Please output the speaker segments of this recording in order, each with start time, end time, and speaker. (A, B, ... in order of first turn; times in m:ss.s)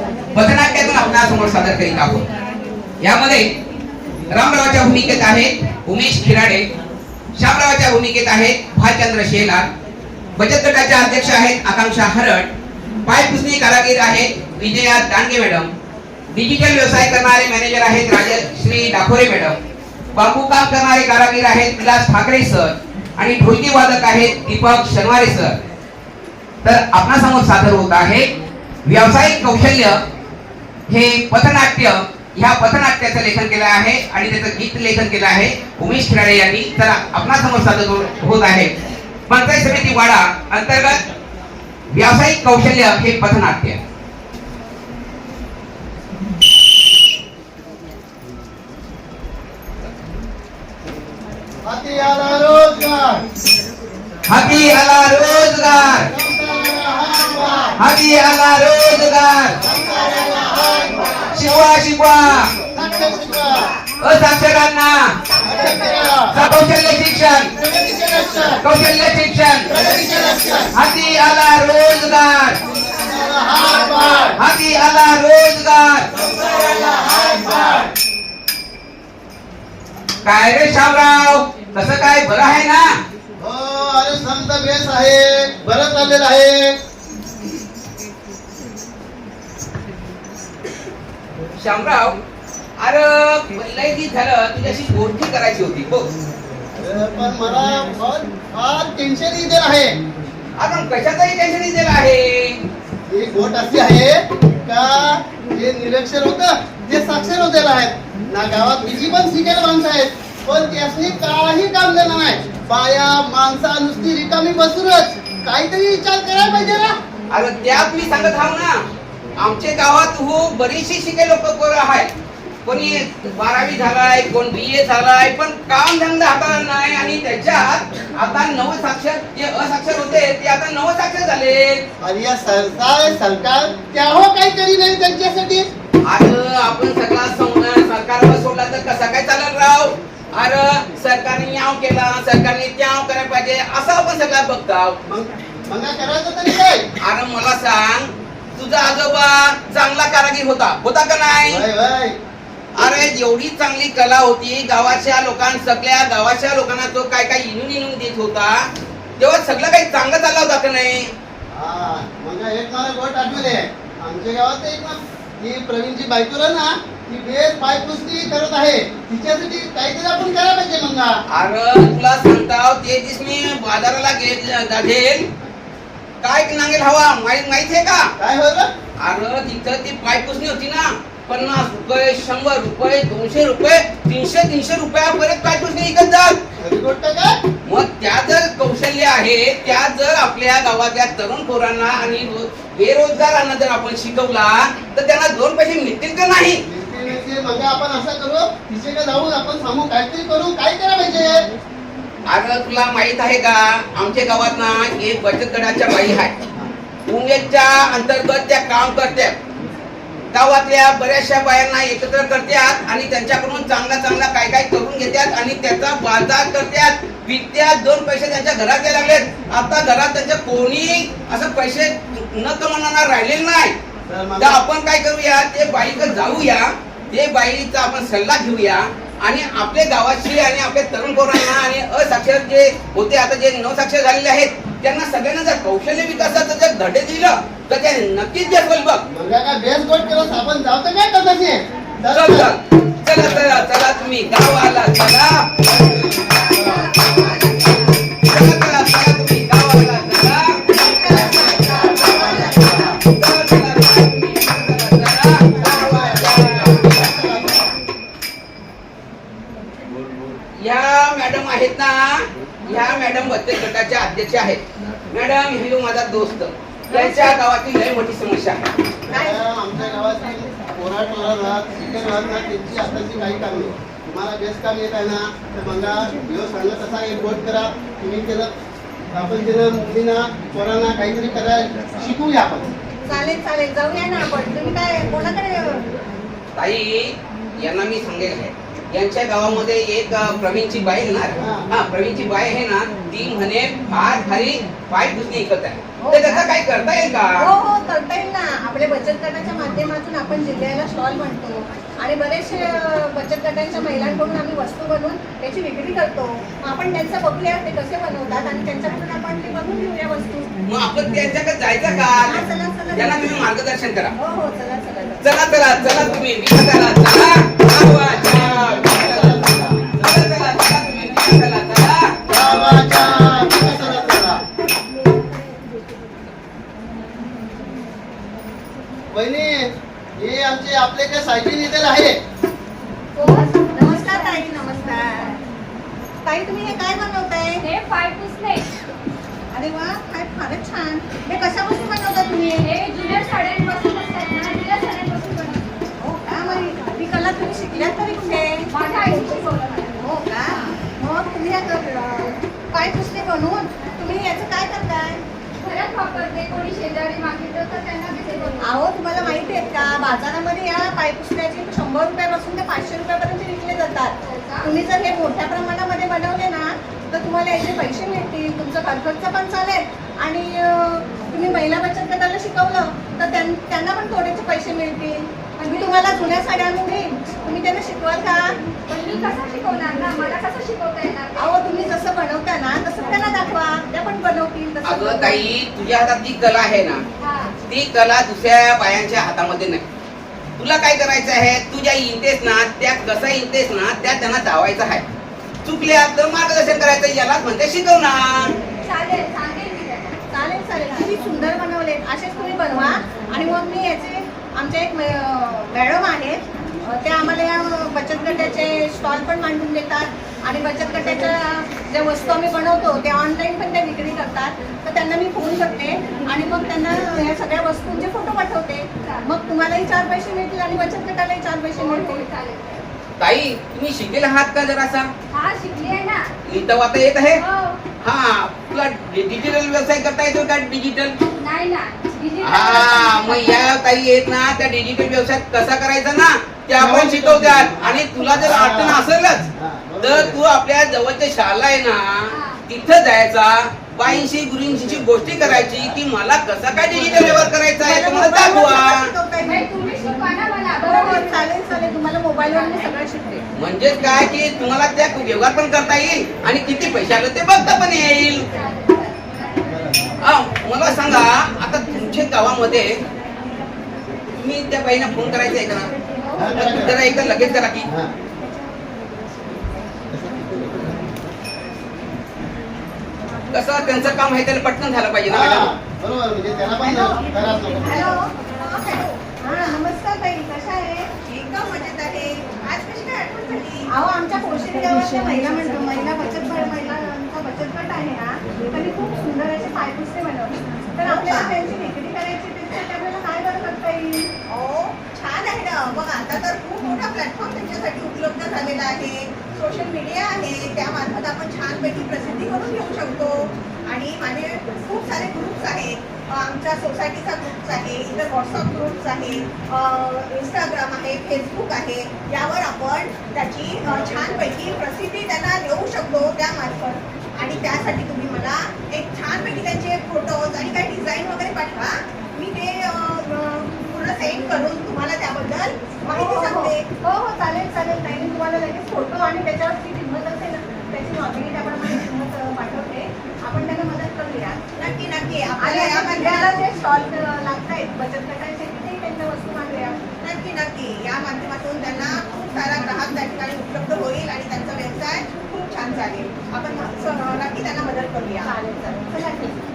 0:00.3-0:02.3 A
0:03.0-0:03.5 A
0:04.3-0:06.7 A
0:07.3-0:09.7 A
0:10.4-0:12.5 A
0:13.0-0:15.7 A
0:16.3-0:19.6 A
0:20.1-0:25.6 A
0:26.6-0:28.3 A
0:28.8-0:30.0 A
0:30.9-0:38.7 A
0:39.3-0:41.0 A
0:41.9-0:43.8 A
0:51.6-0:53.2 B
0:54.3-0:56.1 A
0:56.0-0:57.8 B
0:57.8-0:59.6 A
0:59.6-1:01.6 B
1:00.0-1:00.5 C
1:01.3-1:02.5 A
1:02.6-1:03.7 B
1:04.0-1:05.1 A
1:05.4-1:06.1 C
1:05.4-1:06.4 B
1:06.3-1:07.5 A
1:07.6-1:08.6 B
1:08.6-1:09.8 A
1:09.6-1:10.8 B
1:10.7-1:12.6 A
1:12.9-1:14.4 B
1:14.3-1:17.9 A
1:16.1-1:17.9 B
1:20.2-1:23.0 A
1:23.4-1:26.8 B
1:31.6-1:32.2 A
1:32.8-1:36.1 A
1:36.7-1:40.0 B
1:40.6-1:42.6 A
1:43.1-1:57.0 B
1:57.3-1:58.8 A
1:59.4-2:02.1 A
2:02.6-2:11.8 A
2:12.0-2:15.7 B
2:16.0-2:25.0 A
2:25.0-2:26.9 B
2:27.0-2:31.6 A
2:31.4-2:32.2 B
2:32.8-2:41.1 A
2:41.5-2:51.2 B
2:51.3-2:55.3 A
2:56.2-2:58.1 A
2:58.2-2:58.7 B
2:59.0-3:06.4 A
3:06.6-3:07.4 B
3:07.6-3:16.6 A
3:16.6-3:21.4 B
3:22.2-3:26.3 A
3:27.1-3:29.4 A
3:30.3-3:43.7 A
3:44.1-3:44.6 B
3:44.4-3:59.0 A
3:59.1-4:02.5 B
4:02.1-4:05.4 A
4:05.6-4:07.1 B
4:06.3-4:08.0 C
4:08.2-4:10.6 A
4:10.7-4:12.9 C
4:10.7-4:13.0 B
4:12.1-4:16.9 A
4:15.5-4:17.6 B
4:20.6-4:24.6 A
4:25.1-4:28.6 A
4:29.1-4:38.5 B
4:39.1-4:42.7 B
4:43.1-4:45.8 D
4:46.6-4:57.5 A
4:51.4-4:51.6 B
4:56.1-4:56.4 C
4:57.5-5:10.5 D
5:10.6-5:14.1 A
5:12.3-5:13.1 D
5:12.5-5:12.9 C
5:14.2-5:15.2 D
5:15.2-5:22.1 A
5:18.0-5:19.8 B
5:22.3-5:24.4 B
5:22.7-5:23.7 C
5:29.1-5:32.2 B
5:33.2-5:35.4 D
5:33.2-5:34.4 E
5:36.2-5:37.6 D
5:37.6-5:38.7 E
5:39.5-5:42.7 D
5:42.6-5:45.7 E
5:46.0-5:49.4 D
5:48.7-5:50.0 E
5:50.0-5:50.7 C
5:50.9-5:55.2 D
5:55.6-5:58.7 E
5:58.6-6:18.6 D
6:04.2-6:04.7 E
6:15.6-6:16.4 E
6:18.9-6:21.6 E
6:21.4-6:25.4 D
6:24.8-6:27.0 A
6:27.2-6:27.5 E
6:27.6-6:29.8 A
6:30.6-6:35.0 A
6:35.6-6:38.5 A
6:38.8-6:40.2 E
6:40.3-7:02.2 D
7:01.7-7:02.8 E
7:03.2-7:05.1 A
7:05.3-7:06.3 E
7:06.4-7:07.4 A
7:07.4-7:07.8 E
7:08.0-7:11.2 A
7:11.3-7:13.7 E
7:12.4-7:19.5 A
7:16.7-7:19.0 B
7:19.6-7:20.4 B
7:20.0-7:29.1 A
7:22.3-7:22.6 E
7:27.0-7:27.4 B
7:27.8-7:29.1 C
7:27.9-7:29.6 D
7:29.4-7:31.5 E
7:30.8-7:33.4 D
7:32.5-7:32.9 E
7:33.6-7:38.4 A
7:38.5-7:39.2 E
7:39.6-7:40.1 B
7:40.2-7:43.0 A
7:44.4-7:45.9 A
7:46.3-7:47.0 B
7:46.5-7:47.9 A
7:47.9-7:48.1 B
7:50.1-7:51.0 B
7:53.5-7:55.7 A
7:55.2-7:58.1 B
7:57.7-7:59.8 C
7:58.0-7:58.3 D
7:59.4-8:01.1 D
8:01.2-8:03.9 C
8:03.9-8:14.3 D
8:11.0-8:11.6 C
8:14.5-8:46.9 C
8:46.1-8:54.6 D
8:54.7-8:56.6 C
8:55.6-9:00.0 D
9:00.2-9:09.2 C
9:08.5-9:09.6 D